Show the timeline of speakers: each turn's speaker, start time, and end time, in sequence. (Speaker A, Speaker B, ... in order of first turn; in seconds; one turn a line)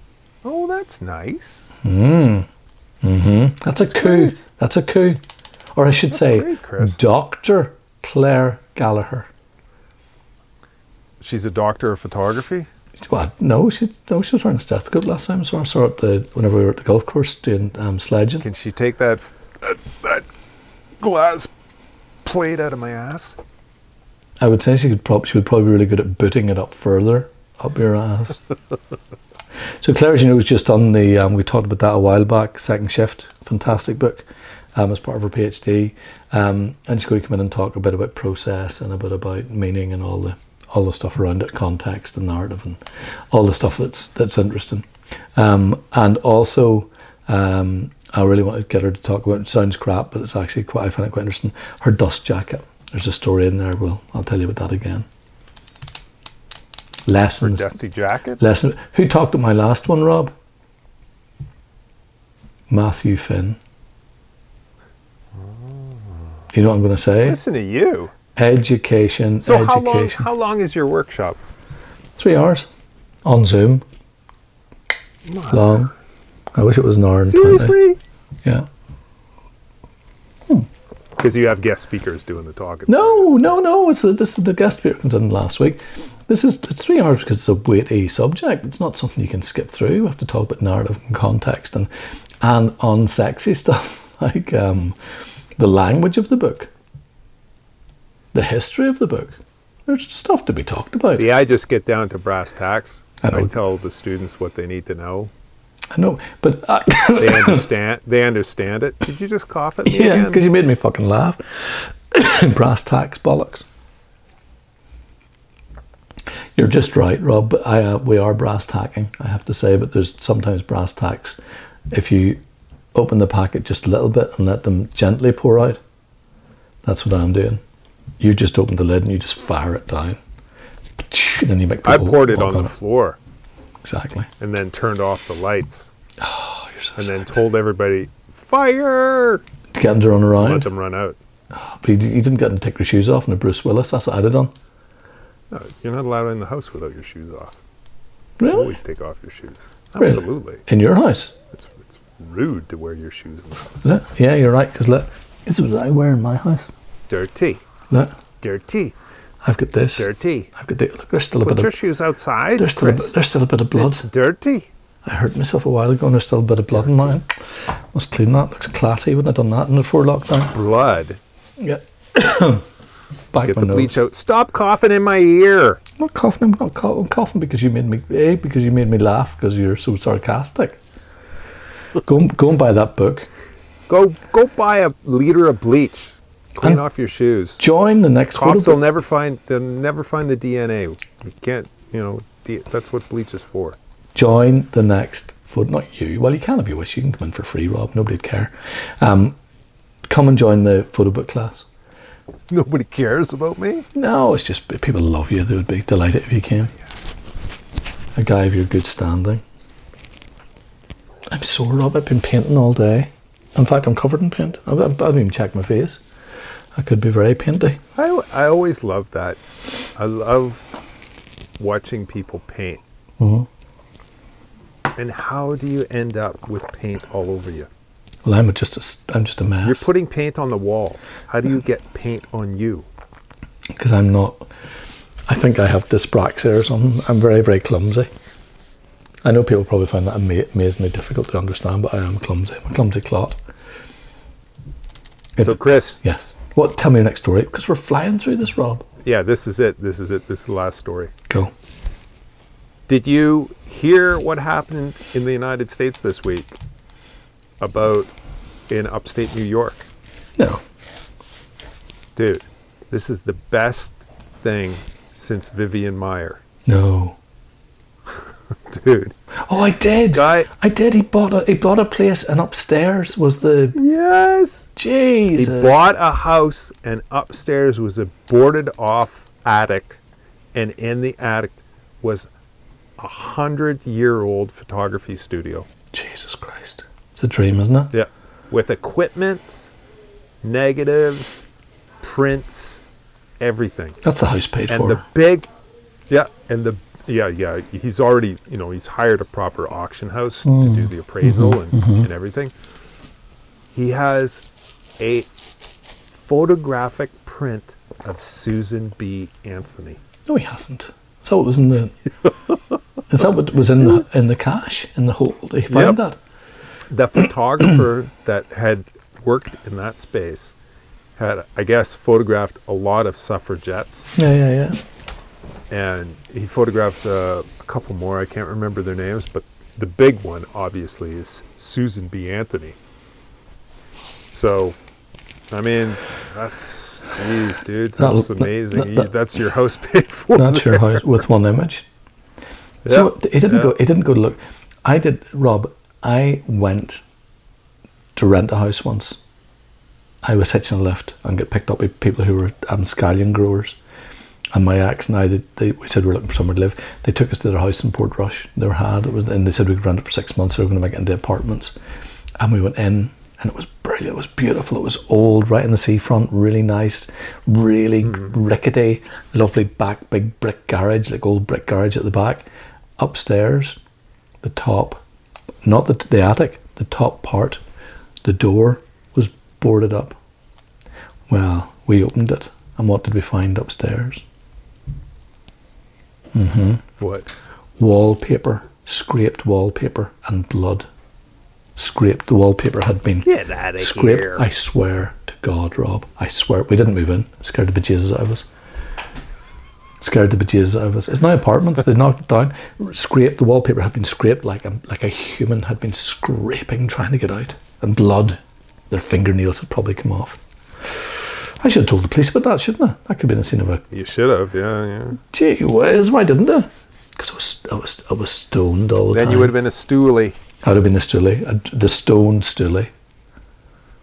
Speaker A: 0.4-1.8
Speaker B: 1.8-2.5
Speaker B: 3.0-5.2
Speaker A: 3.9-4.4
Speaker B: 5.8-9.3
Speaker A: 6.1-7.0
Speaker A: 11.2-12.7
Speaker B: 13.0-18.4
Speaker A: 18.4-20.3
Speaker A: 21.0-21.5
Speaker A: 22.2-23.4
Speaker B: 24.4-28.4
Speaker B: 29.8-55.1
Speaker B: 57.1-57.8
Speaker A: 57.4-58.4
Speaker B: 58.4-60.3
Speaker B: 62.7-63.6
Speaker A: 65.4-66.2
Speaker B: 66.5-67.4
Speaker A: 67.2-68.1
Speaker B: 68.4-70.3
Speaker A: 69.4-71.4
Speaker B: 72.2-72.7
Speaker B: 73.2-73.8
Speaker A: 75.3-75.9
Speaker B: 75.5-75.9
Speaker B: 76.5-77.8
Speaker A: 77.2-78.0
Speaker A: 81.2-83.5
Speaker B: 82.9-91.9
Speaker B: 92.4-95.0
Speaker B: 95.6-96.7
Speaker B: 98.3-101.3
Speaker A: 101.1-105.3
Speaker B: 103.2-103.5
Speaker B: 105.9-107.7
Speaker A: 107.2-110.5
Speaker B: 109.9-113.7
Speaker B: 116.6-121.4
Speaker B: 121.9-122.4
Speaker B: 122.9-125.8
Speaker B: 126.8-127.6
Speaker B: 128.2-130.2
Speaker B: 131.0-132.7
Speaker A: 131.8-133.2
Speaker B: 133.8-134.3
Speaker A: 134.4-135.9
Speaker B: 136.2-137.3
Speaker A: 136.9-139.4
Speaker B: 139.7-140.7
Speaker A: 140.4-141.2
Speaker B: 141.5-144.5
Speaker A: 145.5-147.6
Speaker B: 148.4-148.8
Speaker A: 148.5-150.6
Speaker B: 150.0-151.3
Speaker A: 151.5-153.9
Speaker B: 153.8-156.7
Speaker A: 157.1-157.6
Speaker A: 158.4-158.9
Speaker B: 159.4-161.8
Speaker A: 160.0-160.5
Speaker A: 161.4-163.2
Speaker B: 162.6-164.1
Speaker A: 163.7-164.7
Speaker B: 165.1-167.3
Speaker A: 166.7-167.1
Speaker B: 167.9-170.6
Speaker A: 170.5-171.2
Speaker B: 171.6-172.6
Speaker B: 173.3-174.0
Speaker A: 173.4-175.8
Speaker B: 176.0-180.8
Speaker B: 182.1-183.3
Speaker A: 183.9-187.6
Speaker B: 187.6-188.8
Speaker A: 188.3-193.8
Speaker B: 194.1-199.4
Speaker B: 200.1-201.7
Speaker A: 202.5-203.9
Speaker B: 203.9-206.7
Speaker B: 208.2-209.4
Speaker B: 211.3-216.0
Speaker B: 216.8-217.8
Speaker A: 217.9-219.4
Speaker A: 219.9-220.7
Speaker A: 221.6-222.8
Speaker B: 223.2-223.5
Speaker A: 224.9-227.7
Speaker B: 228.2-229.9
Speaker A: 229.6-232.9
Speaker B: 233.7-234.5
Speaker B: 235.3-238.1
Speaker B: 239.2-243.4
Speaker B: 245.4-248.8
Speaker A: 245.4-246.0
Speaker A: 249.0-251.1
Speaker A: 252.9-256.6
Speaker A: 257.6-258.1
Speaker A: 258.7-259.9
Speaker B: 260.4-260.6
Speaker A: 262.1-266.4
Speaker B: 266.6-267.2
Speaker A: 268.7-269.1
Speaker B: 269.5-273.8
Speaker A: 270.1-270.5
Speaker A: 273.7-274.7
Speaker B: 274.8-275.8
Speaker A: 275.3-280.0
Speaker A: 280.5-282.3
Speaker A: 283.0-285.7
Speaker B: 285.9-287.9
Speaker A: 287.9-289.7
Speaker A: 290.4-291.4
Speaker A: 292.0-292.9
Speaker A: 293.4-294.0
Speaker B: 294.0-295.0
Speaker A: 294.7-295.5
Speaker A: 296.1-302.5
Speaker B: 300.4-302.1
Speaker A: 303.7-304.4
Speaker A: 305.0-305.3
Speaker A: 306.1-310.0
Speaker B: 310.3-311.9
Speaker B: 313.1-316.2
Speaker A: 315.7-316.0
Speaker A: 316.9-320.5
Speaker A: 321.2-324.1
Speaker B: 324.1-324.8
Speaker A: 325.7-332.8
Speaker A: 334.3-334.8
Speaker A: 335.5-341.1
Speaker B: 338.0-339.1
Speaker B: 340.3-341.9
Speaker A: 342.9-343.7
Speaker B: 342.9-347.0
Speaker B: 348.1-349.2
Speaker B: 350.2-353.8
Speaker B: 354.5-361.8
Speaker B: 362.4-372.4
Speaker B: 373.0-373.8
Speaker B: 374.4-375.0
Speaker B: 375.6-377.6
Speaker B: 378.2-380.2
Speaker B: 381.3-384.2
Speaker B: 386.3-386.9
Speaker A: 387.0-387.3
Speaker B: 387.8-390.9
Speaker B: 391.8-398.4
Speaker A: 393.2-394.5
Speaker B: 400.0-408.4
Speaker B: 408.9-413.8
Speaker A: 413.9-415.2
Speaker B: 415.3-419.6
Speaker A: 419.1-420.4
Speaker B: 420.6-422.9